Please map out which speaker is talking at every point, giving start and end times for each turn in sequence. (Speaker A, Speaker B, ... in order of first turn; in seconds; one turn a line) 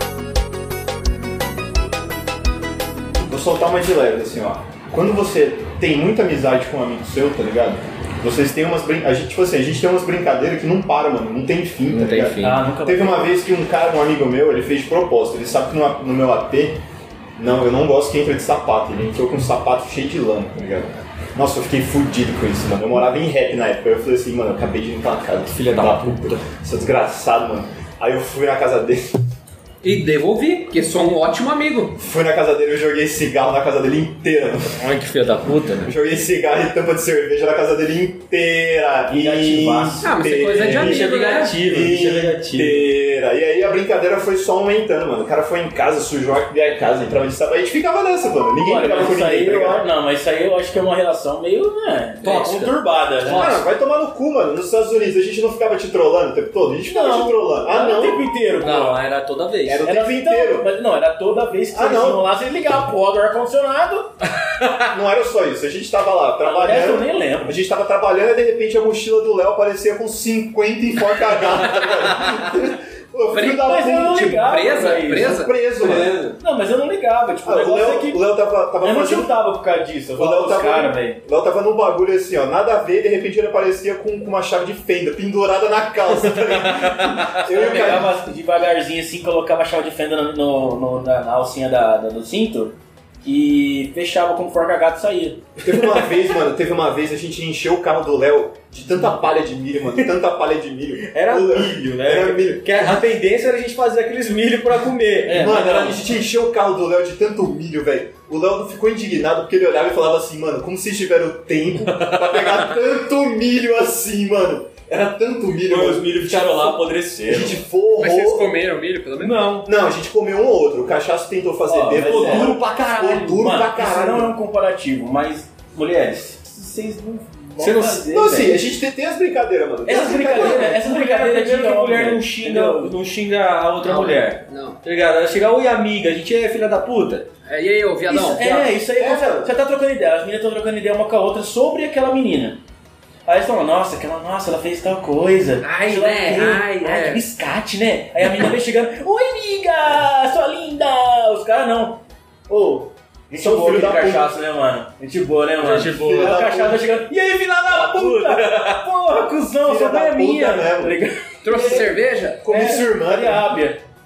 Speaker A: 3.3-16.8
Speaker B: 11.9-12.7
Speaker C: 12.4-13.3
Speaker A: 17.4-29.2
Speaker B: 25.5-26.4
Speaker D: 29.8-32.0
Speaker A: 32.0-34.8
Speaker B: 34.8-35.9
Speaker A: 35.8-41.1
Speaker C: 39.1-40.1
Speaker D: 40.0-41.6
Speaker B: 40.6-42.9
Speaker A: 41.6-49.9
Speaker C: 48.6-53.5
Speaker B: 52.2-53.7
Speaker A: 53.2-58.2
Speaker C: 56.9-59.0
Speaker B: 58.5-59.9
Speaker A: 59.6-60.8
Speaker C: 59.8-64.1
Speaker A: 61.7-62.3
Speaker A: 64.9-74.3
Speaker C: 66.4-67.5
Speaker C: 73.3-75.3
Speaker D: 73.3-75.5
Speaker A: 75.1-76.2
Speaker B: 75.8-76.4
Speaker C: 76.4-78.3
Speaker A: 77.5-79.3
Speaker C: 78.8-81.2
Speaker A: 80.2-88.2
Speaker B: 86.1-87.4
Speaker C: 87.5-95.4
Speaker A: 95.6-103.0
Speaker B: 95.7-96.3
Speaker B: 101.0-106.1
Speaker C: 105.3-105.8
Speaker A: 105.3-118.5
Speaker B: 111.8-112.8
Speaker B: 115.6-117.6
Speaker D: 118.0-119.5
Speaker B: 119.2-119.7
Speaker A: 119.7-124.3
Speaker C: 121.7-122.6
Speaker B: 122.0-123.7
Speaker C: 123.3-128.6
Speaker B: 127.6-128.1
Speaker A: 128.1-130.8
Speaker C: 129.9-132.9
Speaker B: 129.9-137.3
Speaker D: 133.8-134.8
Speaker D: 137.5-138.7
Speaker C: 138.1-142.6
Speaker A: 138.9-139.5
Speaker C: 143.3-163.8
Speaker D: 145.6-147.3
Speaker A: 153.3-154.3
Speaker B: 155.6-156.5
Speaker A: 155.8-156.8
Speaker B: 157.7-158.8
Speaker A: 159.6-161.0
Speaker D: 161.4-162.4
Speaker A: 162.4-163.6